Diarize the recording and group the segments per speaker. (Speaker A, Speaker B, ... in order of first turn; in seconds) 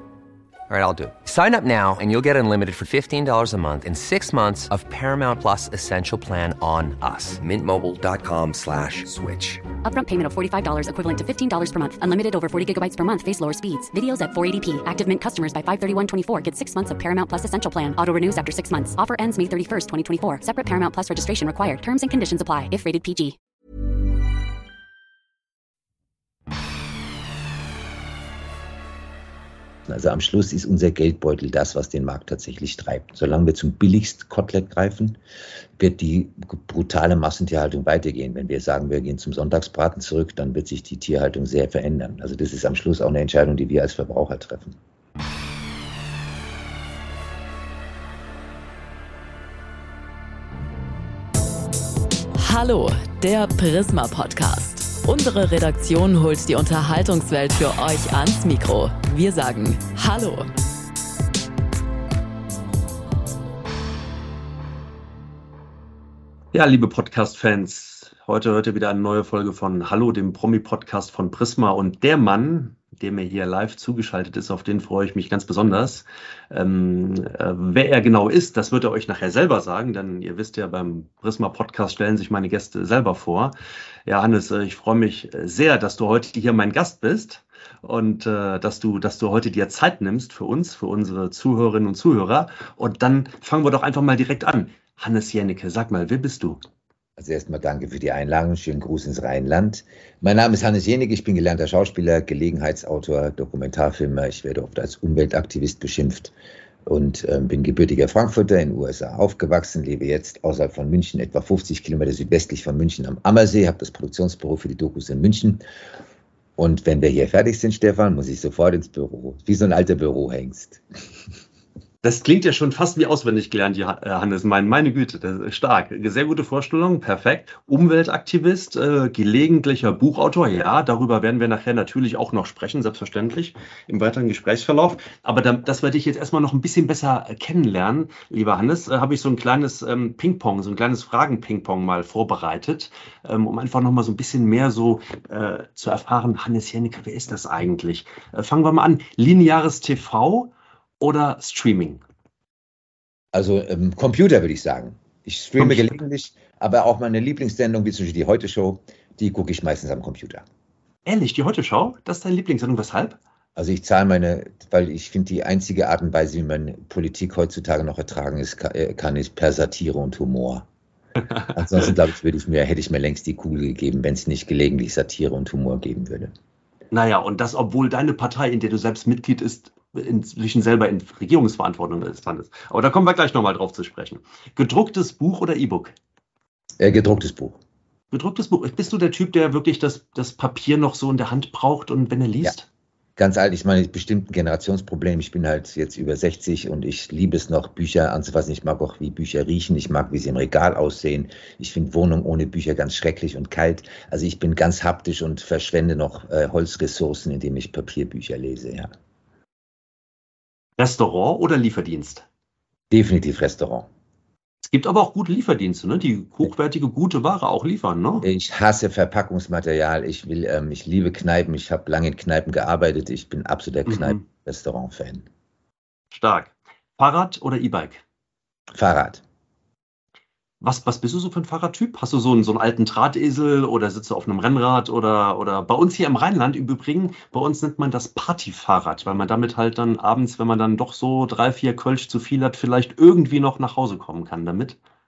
Speaker A: 0.7-9.6
Speaker B: 9.8-23.4
Speaker C: 29.9-35.2, 35.8-44.8, 97.2-106.3, 106.8-115.6, 116.6-120.8, 153.3-160.4, 163.6-170.7, 171.5-176.3, 186.8-187.6, 193.2-208.9, 212.9-213.9, 218.2-225.2, 228.7-229.2
Speaker D: 52.4-60.5
Speaker E: 66.5-83.5, 84.0-96.6, 122.0-152.0, 155.6-155.9, 161.0-163.2, 176.9-185.9, 188.1-192.7, 210.8-212.2, 214.6-218.2, 223.9-224.2, 226.1-228.0, 230.6-244.8